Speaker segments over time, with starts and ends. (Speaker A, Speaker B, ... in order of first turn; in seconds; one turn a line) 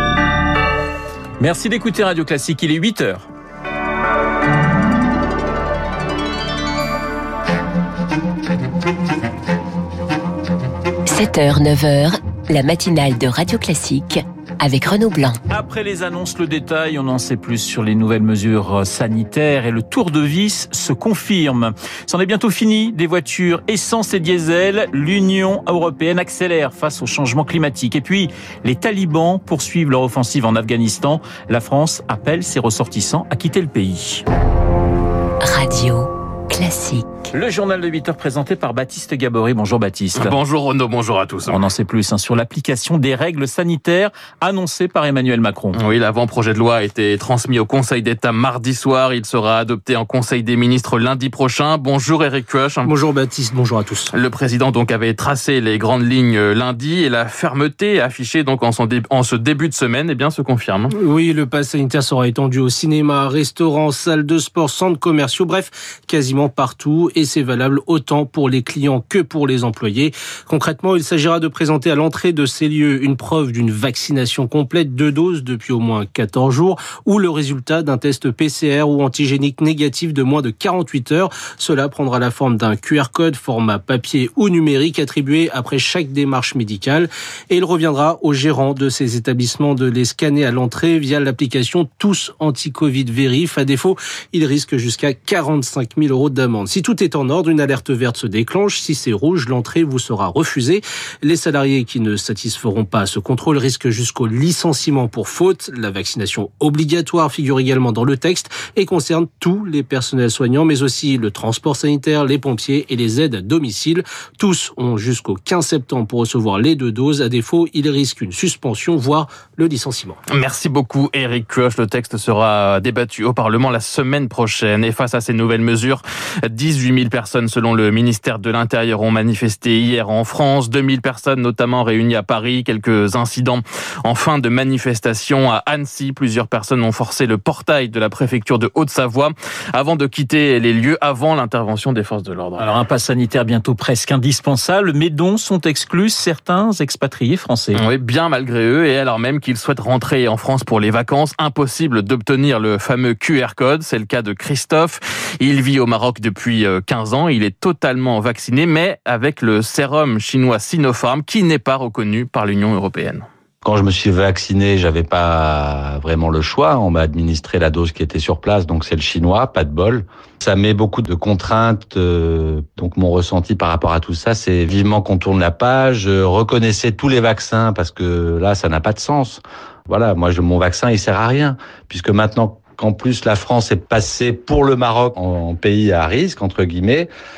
Speaker A: 1.4-3.3
Speaker B: 11.1-15.4
Speaker A: 15.5-34.2
Speaker B: 35.4-37.1
Speaker A: 37.3-40.4
Speaker C: 40.2-41.6
Speaker A: 41.5-45.8
Speaker C: 45.8-53.0
Speaker D: 52.9-54.1
Speaker C: 54.1-60.9
Speaker D: 61.0-120.2
Speaker C: 120.3-142.7
Speaker A: 142.6-147.8
Speaker C: 147.7-163.3
Speaker E: 163.6-187.1